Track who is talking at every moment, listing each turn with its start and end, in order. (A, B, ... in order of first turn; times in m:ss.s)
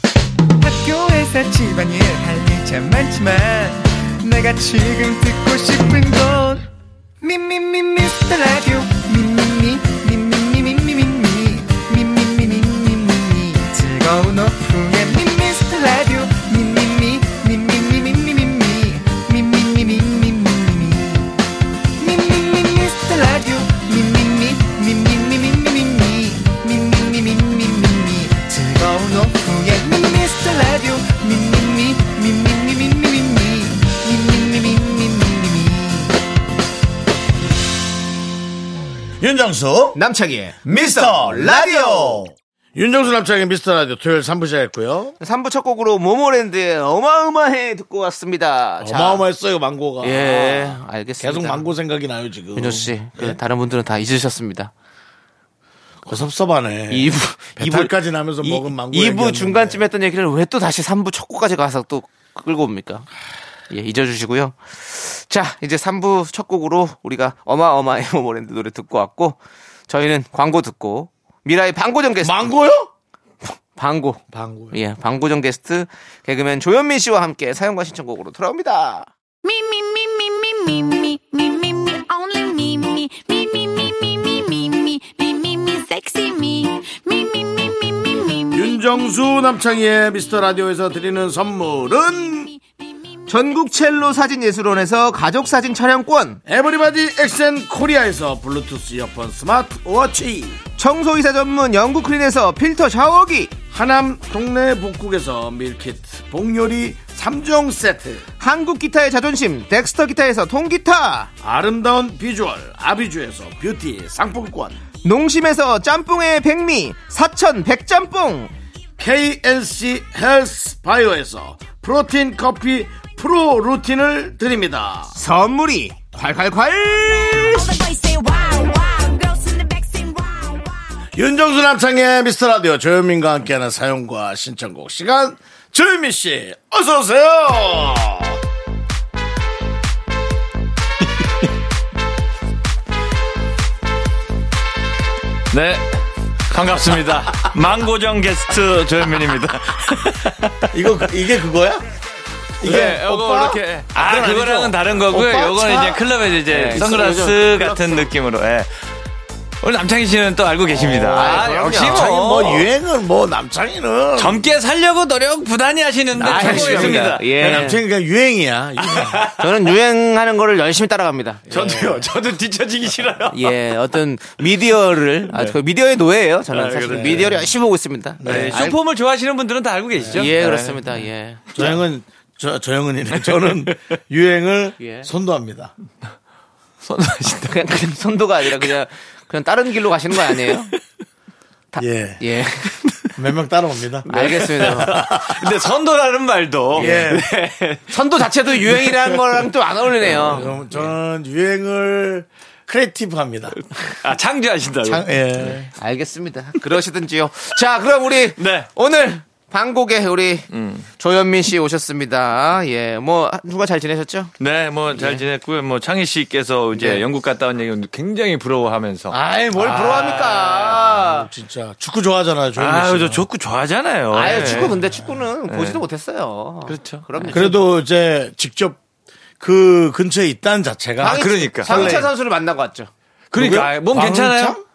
0:00.6-0:06.7 A
0:07.2-0:21.4 A
0:22.0-0:36.2 A
0:39.2-0:40.0 B
0:40.0-0:42.3 C
0:40.7-0:45.2 B
0:45.2-0:49.2 C
0:48.8-0:53.4 B
0:50.0-0:51.6 C
0:52.6-0:54.7 C
0:56.0-0:59.8 B
0:56.9-1:03.1 C
1:03.7-1:09.4 C
1:09.9-1:12.5 C
1:12.2-1:12.9 B
1:13.4-1:19.1 C
1:14.3-1:14.8 B
1:19.5-1:28.5 D
1:28.5-1:32.5 B
1:33.3-1:36.4 C
1:36.5-1:40.6 B
1:40.8-1:43.6 C
1:43.7-1:48.2 B
1:48.4-1:51.3 C
1:51.4-1:54.8 B
1:55.0-1:58.5 C
1:59.0-2:05.2 B
2:05.2-2:07.8 C
2:07.4-2:10.7 D
2:11.1-2:18.4 B
2:25.5-2:26.0 E
2:26.5-2:31.1 E
2:30.7-2:31.8 B
2:32.6-2:36.1 B
2:32.6-2:38.7 E
2:36.5-2:38.0 C
2:36.7-2:37.8 B
2:39.6-2:42.7 E
2:40.7-2:44.5 B
2:40.8-2:42.2 C
2:44.2-2:47.7 E
2:46.2-2:47.8 C
2:46.2-2:49.2 B
2:48.8-2:49.5 E
2:49.4-2:51.5 C
2:51.5-2:52.1 B
2:51.5-2:53.6 E
2:53.3-2:58.8 C
2:56.5-2:57.4 E
2:56.9-2:57.4 B
2:58.2-2:58.7 B
2:58.2-3:01.0 E
3:00.1-3:01.6 C
3:01.6-3:05.7 B
3:03.2-3:03.7 E
3:04.8-3:05.1 C
3:06.8-3:07.6 E
3:07.3-3:10.7 C
3:11.7-3:12.8 C
3:11.8-3:12.2 B
3:13.2-3:15.6 B
3:14.1-3:15.0 C
3:14.3-3:17.9 E
3:16.7-3:17.3 B
3:16.8-3:20.5 C
3:18.6-3:19.4 E
3:20.1-3:23.6 B
3:20.1-3:20.9 E
3:23.7-3:25.6 E
3:24.8-3:25.7 B
3:25.8-3:34.3 C
3:28.4-3:28.7 E
3:30.5-3:30.9 E
3:34.4-3:40.7 E
3:34.9-3:35.2 C
3:36.7-3:37.0 C
3:39.1-3:41.3 C
3:39.6-3:43.3 B
3:42.6-3:44.8 E
3:44.1-3:47.6 C
3:44.3-3:44.7 B
3:45.5-3:45.8 E
3:46.7-3:47.5 E
3:47.3-3:48.8 B
3:49.4-3:52.1 B
3:51.0-3:52.9 C
3:51.0-3:52.0 E
3:53.3-3:54.6 E
3:53.4-3:54.6 B
3:54.0-3:54.5 C